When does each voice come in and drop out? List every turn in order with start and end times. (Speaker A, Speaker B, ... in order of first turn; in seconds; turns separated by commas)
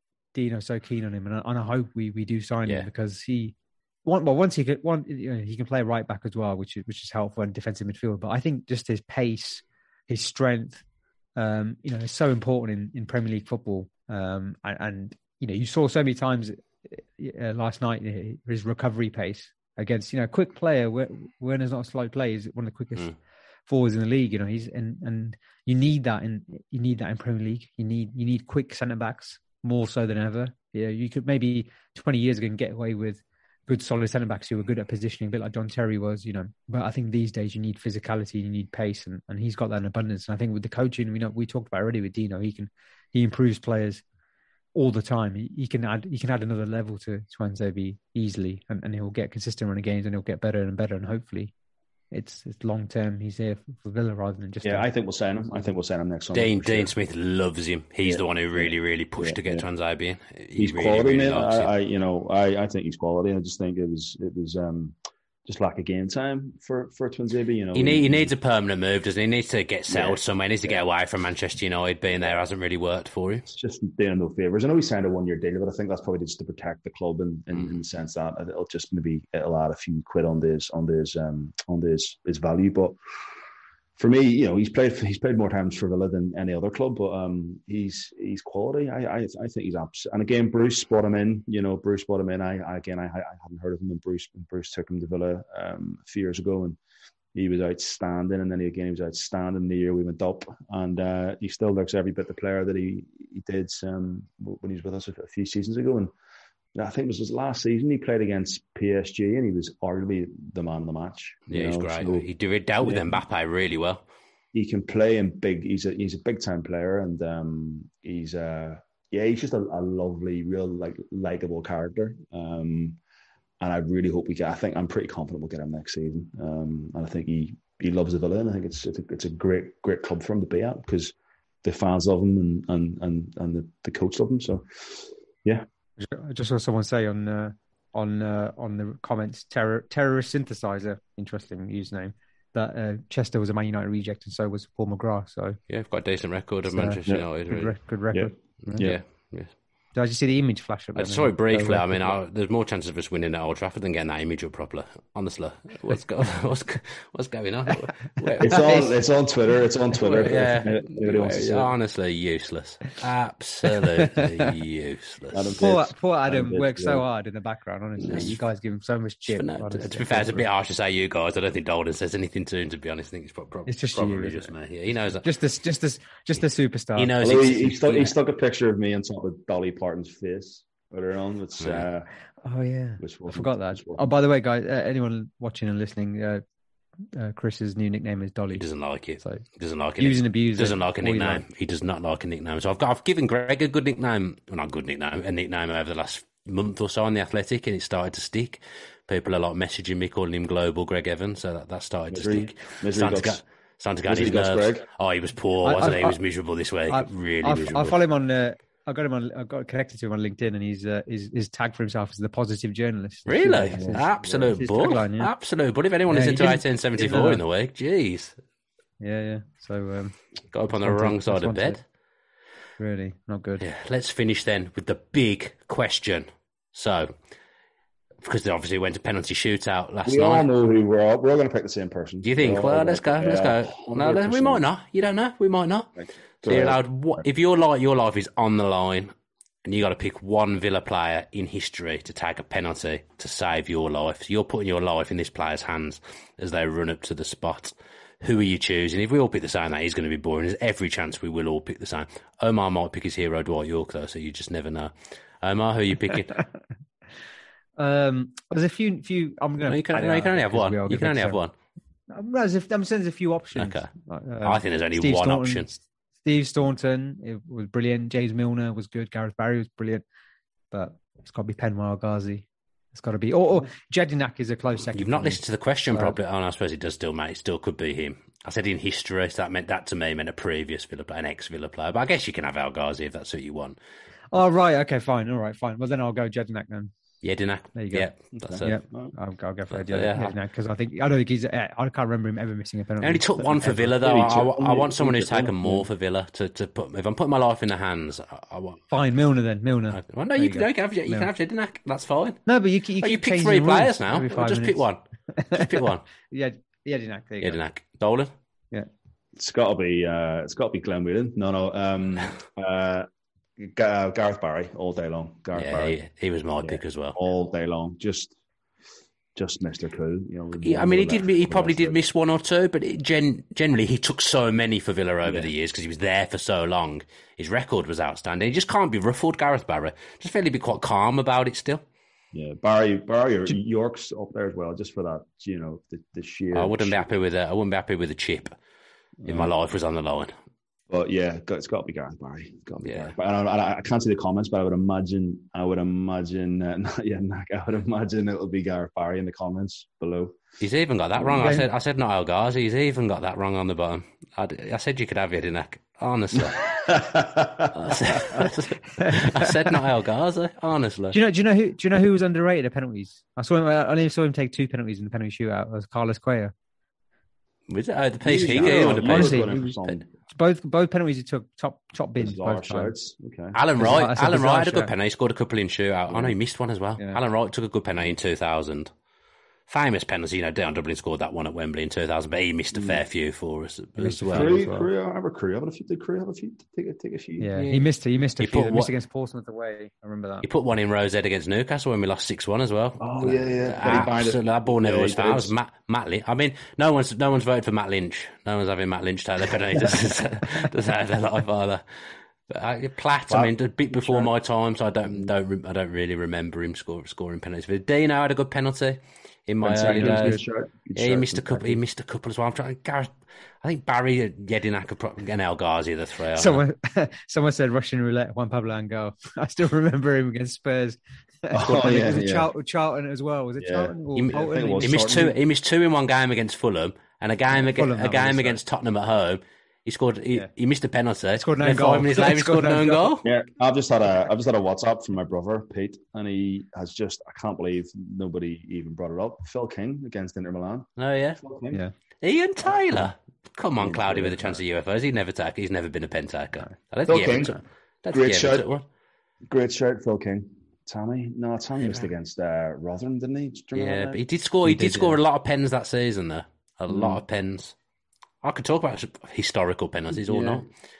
Speaker A: 0.3-3.5, Speaker A: 4.0-10.8, Speaker A: 11.3-23.1, Speaker A: 23.7-44.0, Speaker A: 44.7-51.5, Speaker A: 52.1-54.9, Speaker B: 54.6-56.9, Speaker C: 56.3-61.7, Speaker B: 58.0-59.6, Speaker B: 60.6-68.3, Speaker C: 67.7-73.5, Speaker B: 69.9-70.8, Speaker B: 72.1-72.4, Speaker B: 73.5-83.0, Speaker B: 84.0-96.8, Speaker B: 97.3-106.1, Speaker B: 106.7-112.3, Speaker C: 111.5-114.0, Speaker B: 112.8-113.2, Speaker B: 114.5-123.0, Speaker B: 123.6-135.7, Speaker A: 136.0-145.6, Speaker C: 145.7-147.7, Speaker A: 146.7-148.9, Speaker B: 148.1-149.0, Speaker C: 148.7-149.5, Speaker A: 149.9-152.1, Speaker C: 150.9-158.8, Speaker A: 158.3-158.9, Speaker B: 158.4-161.7, Speaker C: 160.0-165.6, Speaker A: 163.8-164.2, Speaker B: 165.3-167.1, Speaker A: 165.6-170.4, Speaker B: 168.0-168.3, Speaker C: 168.1-168.4, Speaker C: 169.3-175.2, Speaker A: 173.7-174.5, Speaker A: 175.2-178.0, Speaker C: 177.0-178.1, Speaker B: 177.2-182.1, Speaker C: 181.6-181.9, Speaker A: 182.4-186.4, Speaker B: 183.0-184.1, Speaker A: 187.1-188.6, Speaker C: 188.5-208.0, Speaker A: 189.2-189.4, Speaker A: 190.0-191.4, Speaker B: 202.1-203.4, Speaker B: 204.0-204.8, Speaker A: 205.6-206.2, Speaker A: 206.9-215.3, Speaker C: 213.3-218.4, Speaker B: 213.7-214.6, Speaker A: 216.1-217.4, Speaker A: 219.0-220.2, Speaker C: 220.5-221.8, Speaker A: 220.8-221.8, Speaker A: 222.8-223.6, Speaker C: 223.6-227.1, Speaker C: 228.2-230.4, Speaker B: 230.0-234.6, Speaker C: 232.2-235.9, Speaker B: 236.0-237.2, Speaker C: 236.4-239.1, Speaker C: 239.7-256.4, Speaker A: 257.8-261.4, Speaker C: 259.7-261.5, Speaker A: 262.1-270.0, Speaker C: 263.6-263.9, Speaker C: 264.4-265.7, Speaker A: 270.7-275.4, Speaker C: 274.9-283.8, Speaker A: 275.9-276.2, Speaker A: 284.3-286.9, Speaker C: 287.2-288.7, Speaker A: 287.8-288.1, Speaker B: 288.3-289.1, Speaker A: 288.6-293.9, Speaker C: 289.7-290.3, Speaker C: 293.0-298.8, Speaker B: 293.9-295.9, Speaker A: 298.9-301.3, Speaker C: 299.9-302.5, Speaker A: 302.4-304.8, Speaker C: 303.0-305.0, Speaker A: 305.4-307.6, Speaker C: 305.5-306.0, Speaker C: 307.4-308.3, Speaker B: 309.4-313.1, Speaker B: 313.6-316.0, Speaker C: 315.5-317.2, Speaker B: 316.6-318.4, Speaker B: 319.3-322.0, Speaker C: 320.6-331.8, Speaker B: 325.2-325.5, Speaker B: 332.3-337.1, Speaker C: 336.5-338.5, Speaker B: 339.2-339.5, Speaker C: 339.2-340.3, Speaker B: 340.9-350.4, Speaker C: 342.8-343.1, Speaker C: 350.6-356.9, Speaker A: 351.3-351.6, Speaker B: 356.8-357.7, Speaker C: 357.7-361.2, Speaker A: 359.0-359.5, Speaker A: 361.1-366.5, Speaker C: 367.7-369.9, Speaker B: 368.2-370.1, Speaker A: 368.5-372.9, Speaker B: 372.2-373.6, Speaker C: 373.5-378.9, Speaker A: 373.8-374.9, Speaker B: 376.1-376.3, Speaker C: 379.7-384.5, Speaker B: 382.7-383.0, Speaker A: 384.0-384.9, Speaker B: 384.2-387.5, Speaker A: 387.4-390.4, Speaker C: 387.6-388.9, Speaker C: 390.4-410.4, Speaker B: 393.0-395.5, Speaker B: 403.3-404.3, Speaker B: 405.0-405.3, Speaker B: 409.6-411.8, Speaker A: 409.9-410.4, Speaker C: 410.9-416.6, Speaker A: 416.4-424.9, Speaker B: 421.5-422.5, Speaker B: 423.6-425.4, Speaker C: 424.1-433.3, Speaker A: 427.7-428.6, Speaker A: 431.4-433.1, Speaker B: 433.2-441.8, Speaker C: 441.0-441.4, Speaker C: 442.2-448.8, Speaker B: 442.9-443.1, Speaker B: 443.8-444.6, Speaker B: 447.1-447.6, Speaker B: 448.1-448.7, Speaker B: 449.5-455.2, Speaker C: 453.7-457.7, Speaker B: 456.9-457.2, Speaker C: 458.4-460.7, Speaker B: 460.1-460.6